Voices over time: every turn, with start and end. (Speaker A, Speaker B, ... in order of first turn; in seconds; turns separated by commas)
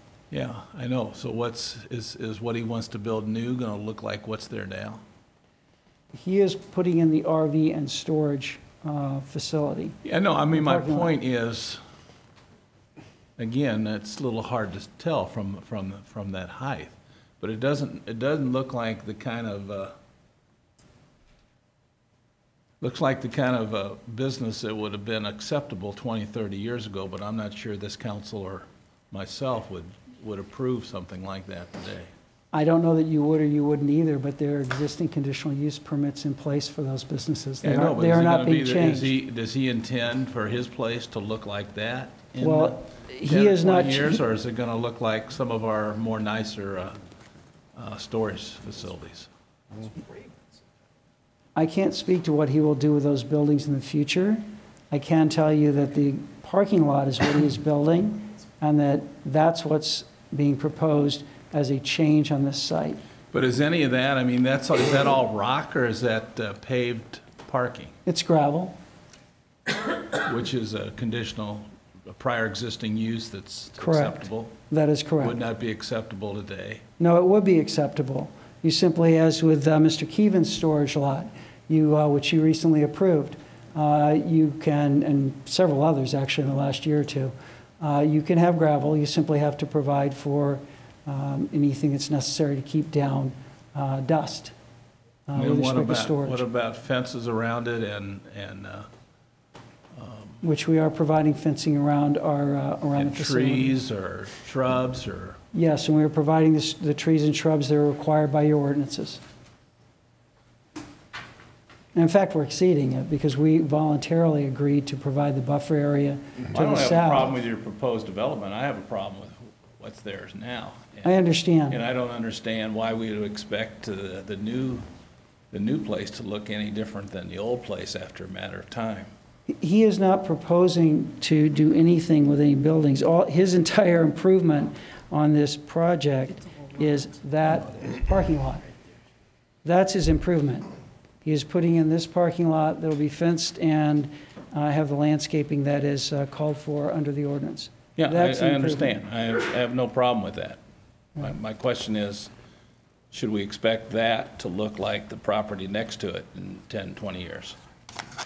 Speaker A: 0.3-5.0, Speaker B: 6.1-10.0, Speaker A: 10.0-11.8, Speaker B: 10.5-11.1, Speaker A: 13.4-19.9, Speaker A: 22.8-32.1, Speaker B: 32.5-39.1, Speaker A: 37.6-46.9, Speaker B: 42.4-44.2, Speaker A: 47.7-49.3, Speaker B: 51.5-63.0, Speaker A: 63.3-67.9, Speaker B: 68.0-68.7, Speaker A: 70.1-74.5, Speaker B: 73.8-75.4, Speaker A: 75.2-76.8, Speaker B: 77.0-94.5, Speaker B: 95.3-96.4, Speaker A: 95.3-98.9, Speaker A: 100.0-100.4, Speaker B: 100.4-103.8, Speaker A: 103.0-105.4, Speaker B: 105.5-109.2, Speaker B: 111.9-117.3, Speaker A: 116.5-121.1, Speaker B: 121.0-121.8, Speaker A: 121.7-124.8, Speaker A: 125.5-129.1, Speaker B: 129.5-138.6, Speaker B: 139.6-140.7, Speaker B: 141.2-148.9, Speaker A: 147.9-150.6, Speaker A: 151.2-152.3, Speaker A: 153.1-157.6